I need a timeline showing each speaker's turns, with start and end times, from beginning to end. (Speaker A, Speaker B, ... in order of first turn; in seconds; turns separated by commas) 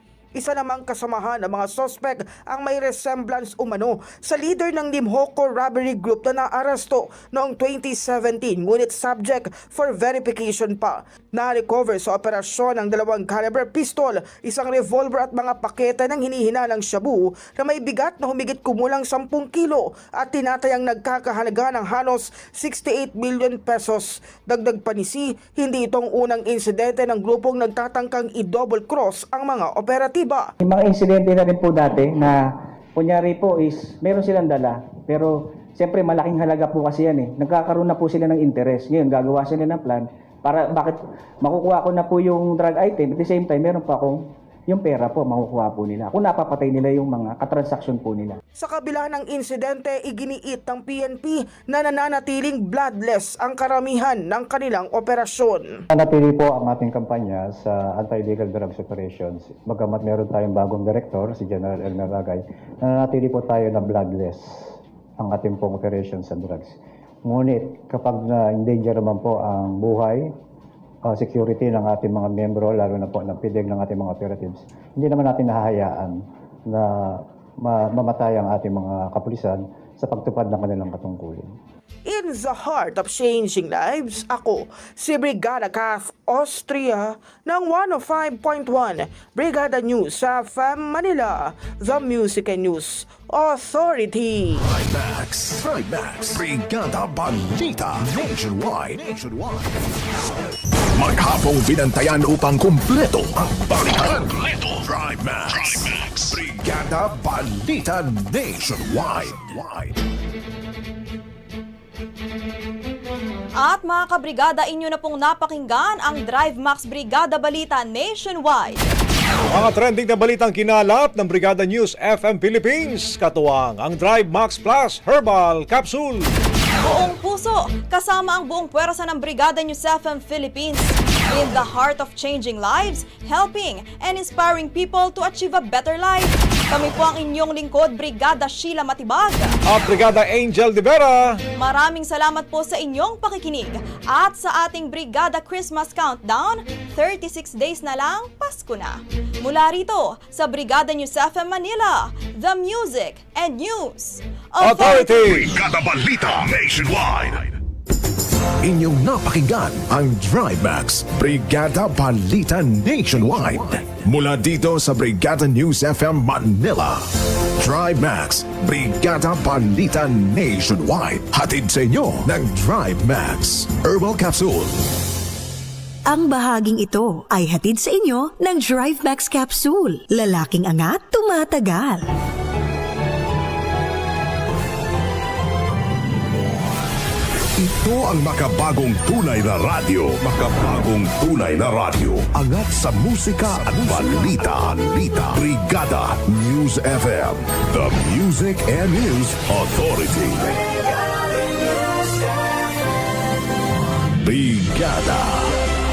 Speaker A: 0.3-30.5, Speaker B: 30.6-32.4, Speaker B: 33.0-48.4, Speaker A: 48.6-55.8, Speaker C: 55.9-64.4, Speaker C: 65.2-70.3, Speaker C: 71.1-81.5, Speaker A: 82.1-94.6, Speaker D: 94.6-99.7, Speaker D: 100.9-110.0, Speaker E: 113.6-118.9, Speaker F: 119.5-126.2, Speaker E: 126.8-139.6, Speaker F: 139.7-141.3, Speaker E: 141.6-155.5, Speaker F: 154.6-155.4, Speaker D: 155.4-157.5, Speaker D: 158.6-167.0, Speaker D: 167.6-174.8, Speaker G: 176.1-182.1, Speaker D: 187.6-200.5, Speaker D: 204.2-205.6